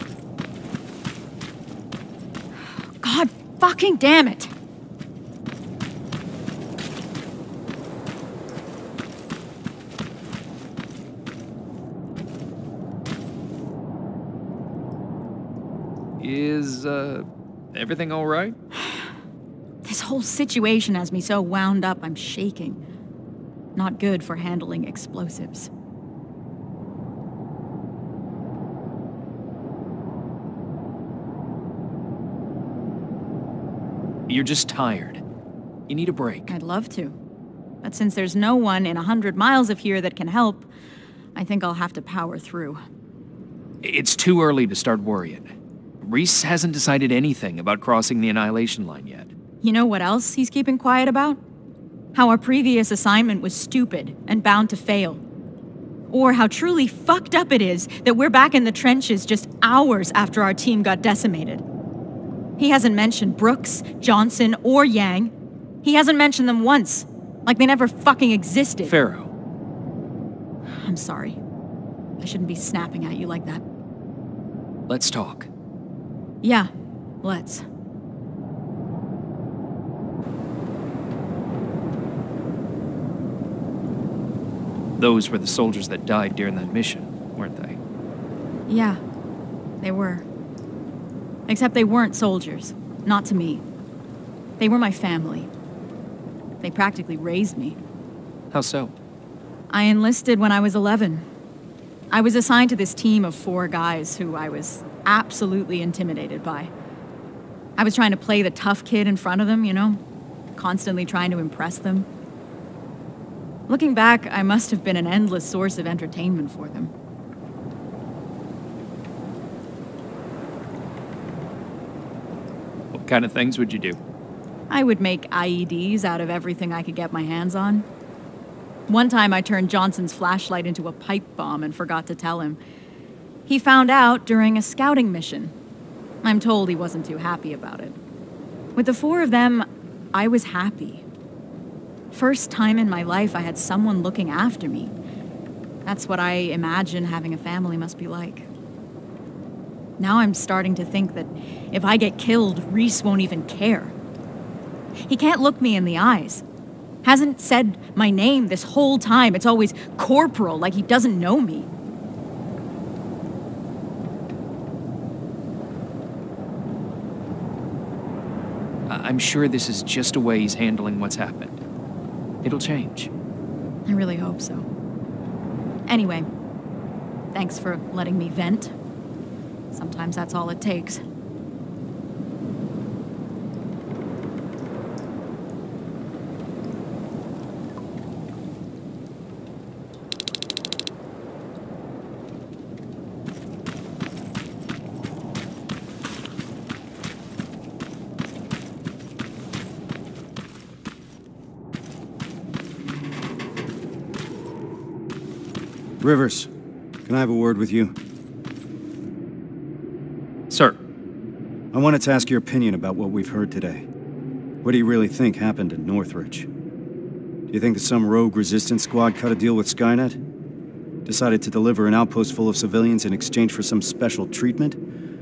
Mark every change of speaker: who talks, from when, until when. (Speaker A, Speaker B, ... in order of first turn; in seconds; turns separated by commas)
Speaker A: 3.0-4.5, Speaker B: 16.2-18.6, Speaker A: 19.8-22.8, Speaker A: 23.7-25.7, Speaker B: 34.3-35.2, Speaker B: 35.9-36.5, Speaker A: 36.5-37.2, Speaker A: 37.8-40.7, Speaker A: 41.3-42.8, Speaker B: 43.8-49.3, Speaker A: 49.6-51.4, Speaker A: 52.1-55.2, Speaker A: 56.1-61.6, Speaker A: 62.6-68.9, Speaker B: 68.8-69.3, Speaker A: 70.8-71.4, Speaker A: 72.2-73.6, Speaker B: 74.9-75.5, Speaker A: 76.4-76.7, Speaker A: 77.2-77.6, Speaker B: 85.0-87.8, Speaker A: 88.7-89.0, Speaker A: 89.8-90.2, Speaker A: 91.5-93.6, Speaker A: 94.6-95.5, Speaker A: 96.6-97.8, Speaker B: 98.5-98.9, Speaker A: 99.7-101.2, Speaker A: 102.1-106.7, Speaker A: 107.8-110.0, Speaker A: 110.5-112.1, Speaker A: 113.7-116.9, Speaker B: 122.9-124.0, Speaker A: 124.7-127.8, Speaker A: 128.9-132.6, Speaker A: 133.5-135.5, Speaker A: 136.2-137.9, Speaker A: 138.8-141.0, Speaker A: 142.1-144.9, Speaker A: 145.8-148.5, Speaker A: 150.0-153.9, Speaker A: 155.1-156.4, Speaker A: 157.0-161.7, Speaker B: 168.9-171.6, Speaker B: 172.4-173.1, Speaker A: 173.9-174.7, Speaker A: 175.9-176.3, Speaker A: 177.3-178.7, Speaker A: 179.7-181.0, Speaker C: 206.0-206.5, Speaker C: 207.1-207.9, Speaker B: 210.5-210.8, Speaker C: 211.7-213.9, Speaker C: 214.6-216.5, Speaker C: 217.5-220.2, Speaker C: 221.0-224.8